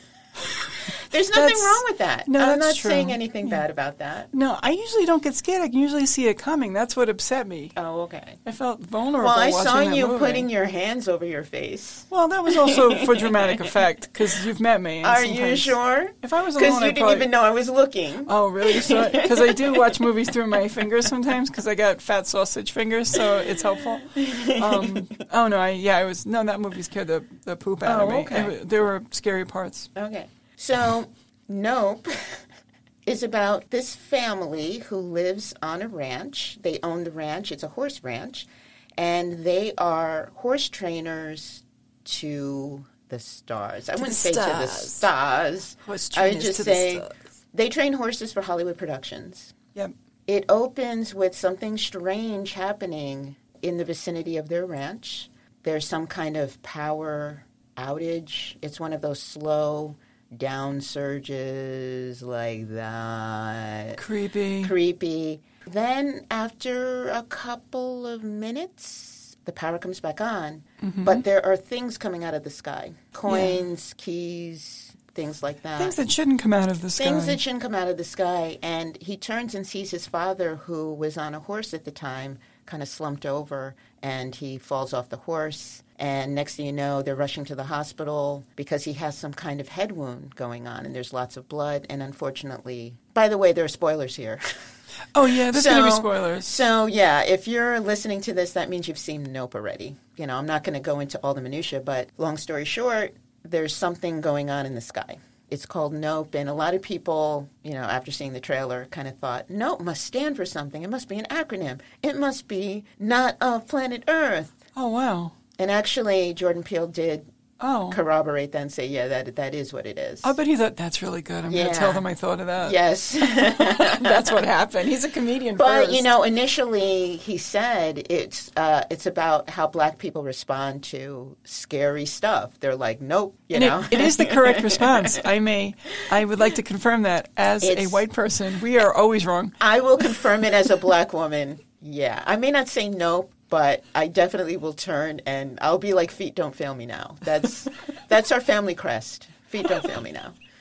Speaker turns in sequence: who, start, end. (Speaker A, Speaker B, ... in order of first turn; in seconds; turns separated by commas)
Speaker A: 0.4-3.6, Speaker B: 0.9-4.3, Speaker A: 4.3-7.8, Speaker B: 7.8-8.4, Speaker A: 8.4-10.5, Speaker B: 9.2-13.7, Speaker A: 12.1-17.3, Speaker B: 15.0-19.8, Speaker A: 18.2-29.9, Speaker B: 24.0-25.1, Speaker B: 27.8-28.5, Speaker B: 29.9-32.4, Speaker B: 33.0-49.5, Speaker A: 44.0-45.1, Speaker A: 45.8-47.2, Speaker B: 50.3-64.0, Speaker A: 64.0-64.7, Speaker B: 64.6-76.0, Speaker A: 70.8-71.2, Speaker A: 73.3-73.6, Speaker A: 75.8-77.4, Speaker B: 77.0-94.5, Speaker A: 95.1-96.6, Speaker B: 95.5-114.6, Speaker A: 114.7-115.3, Speaker B: 115.6-117.3, Speaker A: 117.6-118.0, Speaker B: 117.9-120.3, Speaker A: 120.2-122.8, Speaker B: 121.5-122.0, Speaker B: 122.6-124.4, Speaker A: 123.4-126.1, Speaker B: 125.6-135.2, Speaker A: 133.5-139.6, Speaker B: 137.6-138.0, Speaker B: 139.6-150.3